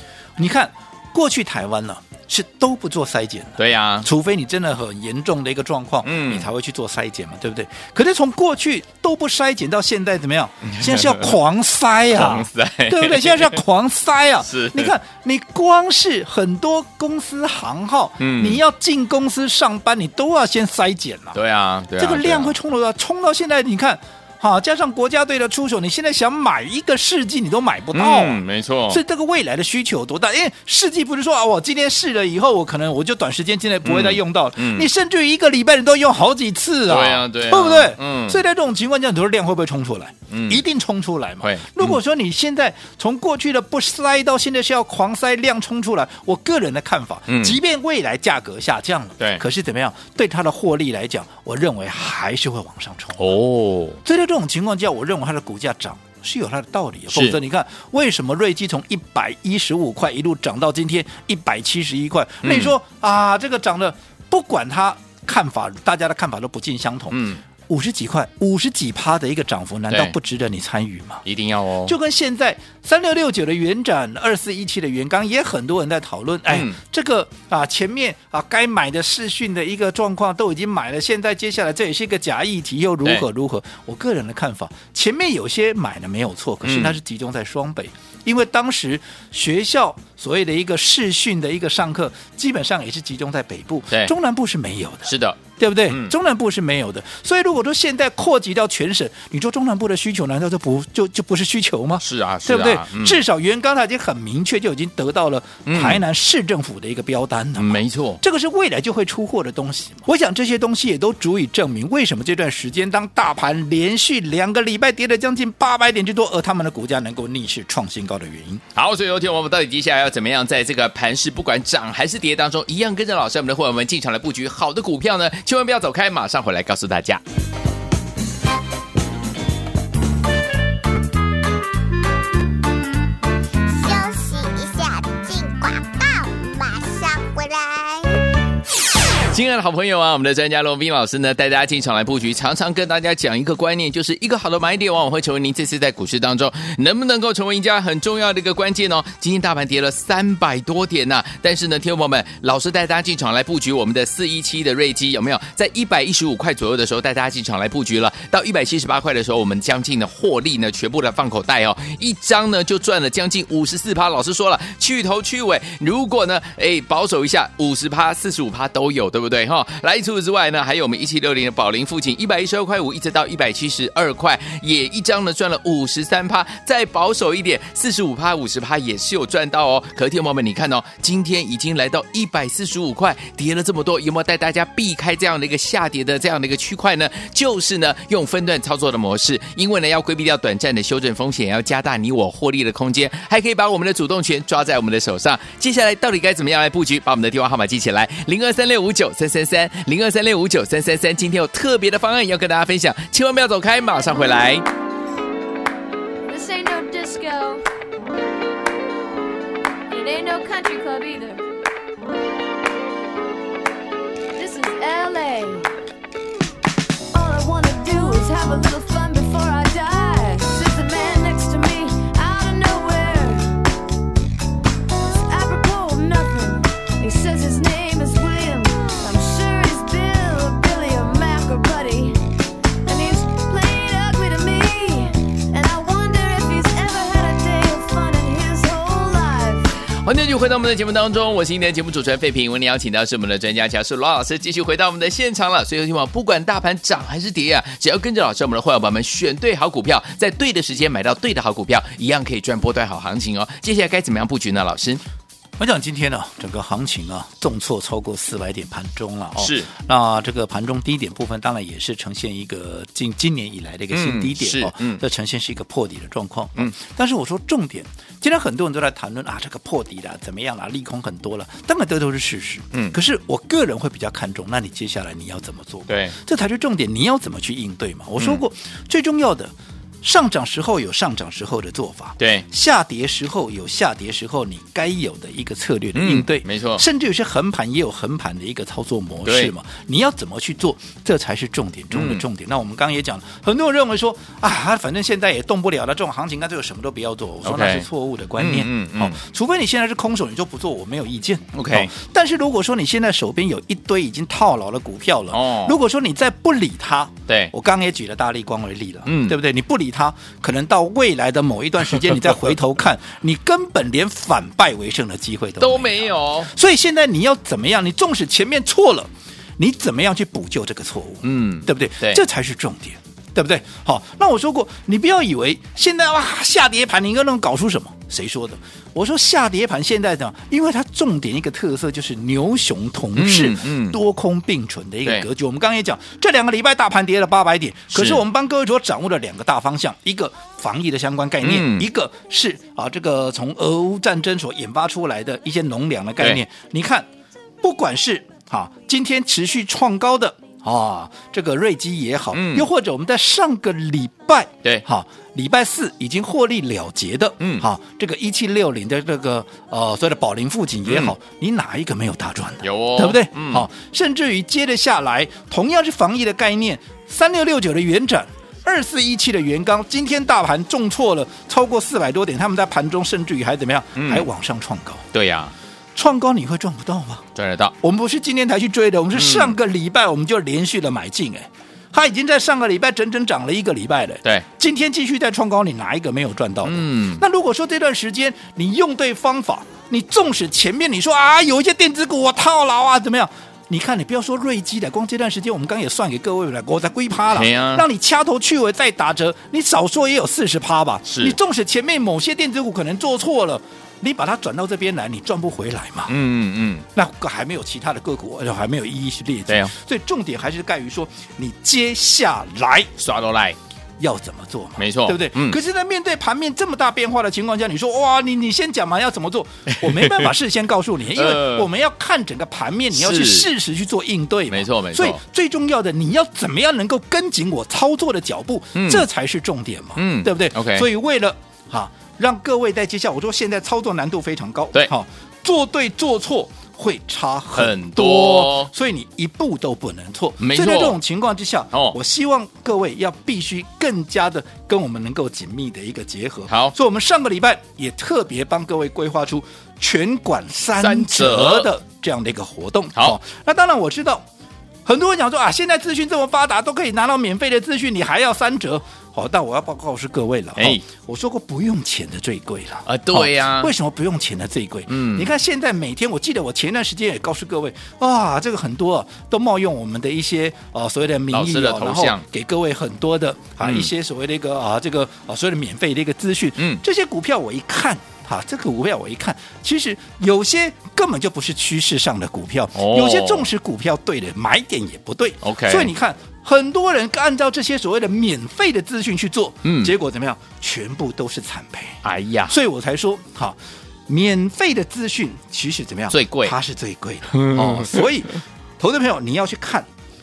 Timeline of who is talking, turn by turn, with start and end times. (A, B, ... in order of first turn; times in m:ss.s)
0:00.4-0:21.4 A
0:03.6-0:04.1 B
0:06.0-0:06.5 B
0:10.8-0:11.3 B
0:12.1-0:13.6 B
0:14.4-0:14.9 B
0:18.2-0:18.6 B
0:21.4-0:22.5 B
0:22.0-0:53.4 A
0:27.9-0:29.0 B
0:33.8-0:34.9 B
0:36.9-0:38.4 B
0:40.3-0:40.6 B
0:41.4-0:42.0 B
0:47.3-0:47.6 B
0:53.2-0:54.0 B
0:54.0-1:11.2 A
0:57.1-0:57.4 B
1:02.4-1:02.7 B
1:07.1-1:07.4 B
1:09.9-1:10.1 B
1:11.2-1:11.9 B
1:11.8-1:58.6 A
1:16.5-1:16.8 B
1:26.6-1:27.0 B
1:35.0-1:36.1 B
1:42.0-1:43.2 B
1:45.6-1:46.0 B
1:47.6-1:48.2 B
1:58.7-2:07.2 B
2:13.6-2:18.2 C
2:19.3-3:24.6 B
3:26.2-3:27.6 D
3:29.9-3:31.4 D
3:34.4-3:35.7 D
3:37.1-3:43.5 D
3:45.3-3:52.2 D
3:52.8-3:59.7 D
4:00.0-4:15.0 B
4:15.6-4:39.5 A
4:19.4-4:19.7 B
4:23.9-4:25.0 B
4:35.9-4:36.1 B
4:40.0-5:47.1 A
4:42.2-4:42.4 B
4:45.9-4:46.8 B
4:49.2-4:49.5 B
4:51.9-4:52.2 B
4:57.4-4:57.9 B
4:58.4-4:59.2 B
5:01.5-5:01.9 B
5:05.3-5:05.7 B
5:07.3-5:07.5 B
5:09.1-5:09.4 B
5:15.6-5:16.5 B
5:21.2-5:22.2 B
5:33.2-5:34.0 B
5:37.9-5:38.2 B
5:41.4-5:41.9 B
5:47.6-6:15.0 A
5:52.3-5:52.7 B
5:57.4-5:57.6 B
6:00.8-6:01.1 B
6:02.6-6:03.6 B
6:14.0-6:14.3 B
6:15.1-6:15.5 B
6:15.9-6:17.2 A
6:17.4-6:17.7 B
6:17.8-6:46.1 A
6:19.1-6:19.5 B
6:26.6-6:27.2 B
6:37.3-6:37.8 B
6:41.1-6:41.4 B
6:46.1-6:46.9 B
6:46.9-6:52.9 A
6:49.5-6:49.7 B
6:53.0-6:53.6 B
6:54.0-7:34.2 A
6:54.8-6:55.6 B
6:59.7-7:00.3 B
7:01.1-7:01.7 B
7:02.9-7:03.5 B
7:04.5-7:05.2 B
7:08.7-7:09.1 B
7:10.0-7:10.9 B
7:17.6-7:18.7 B
7:20.4-7:21.0 B
7:26.5-7:26.7 B
7:30.8-7:31.7 B
7:34.9-8:13.6 A
7:40.6-7:40.8 B
7:42.9-7:43.7 B
7:44.9-7:45.3 B
7:51.3-7:52.2 B
7:53.6-7:53.9 B
7:56.6-7:56.8 B
8:02.7-8:03.5 B
8:05.4-8:05.9 B
8:09.6-8:09.9 B
8:12.0-8:12.6 B
8:14.1-8:19.9 A
8:16.1-8:16.6 B
8:17.3-8:18.1 B